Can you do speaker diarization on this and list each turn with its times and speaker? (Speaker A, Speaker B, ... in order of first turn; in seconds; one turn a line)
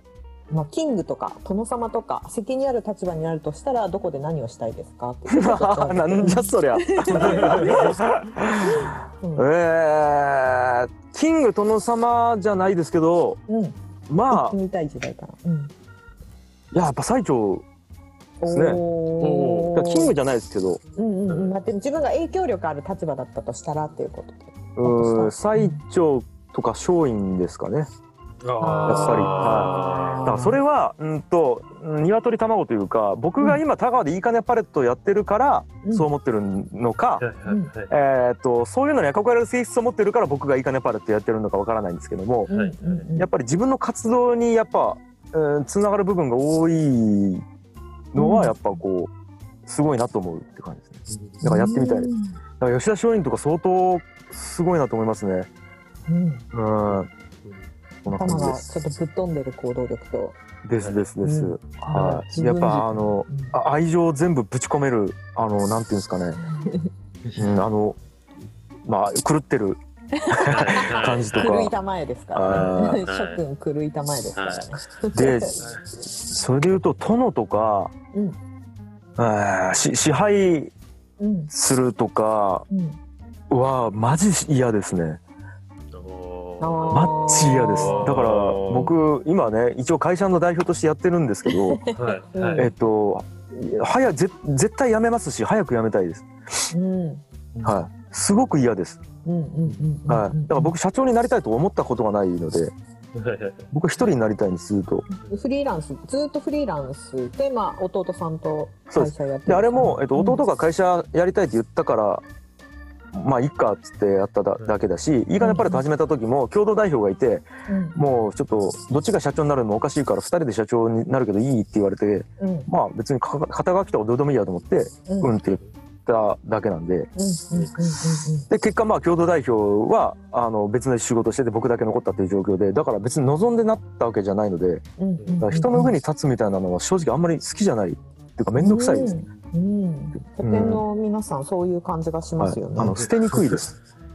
Speaker A: 0.5-7.9
Speaker B: 5.3-13.4
Speaker C: 7.1-7.9
Speaker A: 8.6-9.5
Speaker A: 13.5-13.8
Speaker B: 14.1-14.6
Speaker A: 14.3-15.7
Speaker B: 16.7-17.6
Speaker A: 18.4-20.1
Speaker B: 18.5-18.8
Speaker C: 19.2-19.7
Speaker B: 19.7-20.8
Speaker A: 21.0-25.8
Speaker C: 21.3-21.5
Speaker B: 24.8-27.9
Speaker C: 28.4-30.4
Speaker A: 28.6-30.6
Speaker B: 28.9-37.2
Speaker A: 35.8-36.1
Speaker C: 37.2-37.9
Speaker A: 37.5-37.7
Speaker B: 37.9-42.5
Speaker C: 42.5-43.1
Speaker A: 42.5-43.3
Speaker B: 43.1-47.4
Speaker B: 48.1-49.1
Speaker A: 48.1-48.5
Speaker B: 49.6-55.5
Speaker C: 51.1-51.4
Speaker A: 51.4-52.4
Speaker A: 56.1-56.4
Speaker B: 56.5-57.1
Speaker C: 56.9-57.7
Speaker B: 58.0-58.7
Speaker A: 58.0-60.4
Speaker B: 60.6-66.4
Speaker C: 60.8-61.0
Speaker A: 61.2-63.5
Speaker A: 66.4-66.9
Speaker B: 67.3-68.0
Speaker B: 68.8-69.8
Speaker A: 70.2-75.5
Speaker B: 70.3-71.7
Speaker C: 70.5-71.6
Speaker B: 72.3-73.0
Speaker C: 72.5-73.4
Speaker C: 74.4-74.7
Speaker B: 75.1-75.6
Speaker C: 75.6-75.8
Speaker B: 76.2-77.9
Speaker B: 79.2-80.7
Speaker A: 81.2-81.5
Speaker B: 81.5-82.7
Speaker A: 82.7-83.0
Speaker B: 83.5-85.2
Speaker C: 85.9-89.0
Speaker A: 86.6-88.1
Speaker B: 86.9-91.8
Speaker A: 91.5-92.7
Speaker C: 91.9-92.7
Speaker B: 92.5-96.3
Speaker A: 96.7-97.2
Speaker B: 97.6-99.0
Speaker A: 99.2-100.7
Speaker C: 99.6-99.9
Speaker B: 100.1-102.7
Speaker C: 103.1-103.7
Speaker B: 103.7-105.1
Speaker A: 105.2-110.4
Speaker B: 108.9-112.2
Speaker B: 113.1-127.1
Speaker A: 115.4-115.8
Speaker A: 117.7-118.0
Speaker A: 122.4-122.7
Speaker A: 125.1-125.3
Speaker C: 125.4-125.7
Speaker A: 127.2-128.5
Speaker B: 128.5-134.8
Speaker A: 135.0-135.9
Speaker C: 135.2-135.4
Speaker B: 135.4-139.2
Speaker A: 138.6-143.0
Speaker B: 140.4-140.8
Speaker B: 142.4-143.8
Speaker C: 142.9-143.6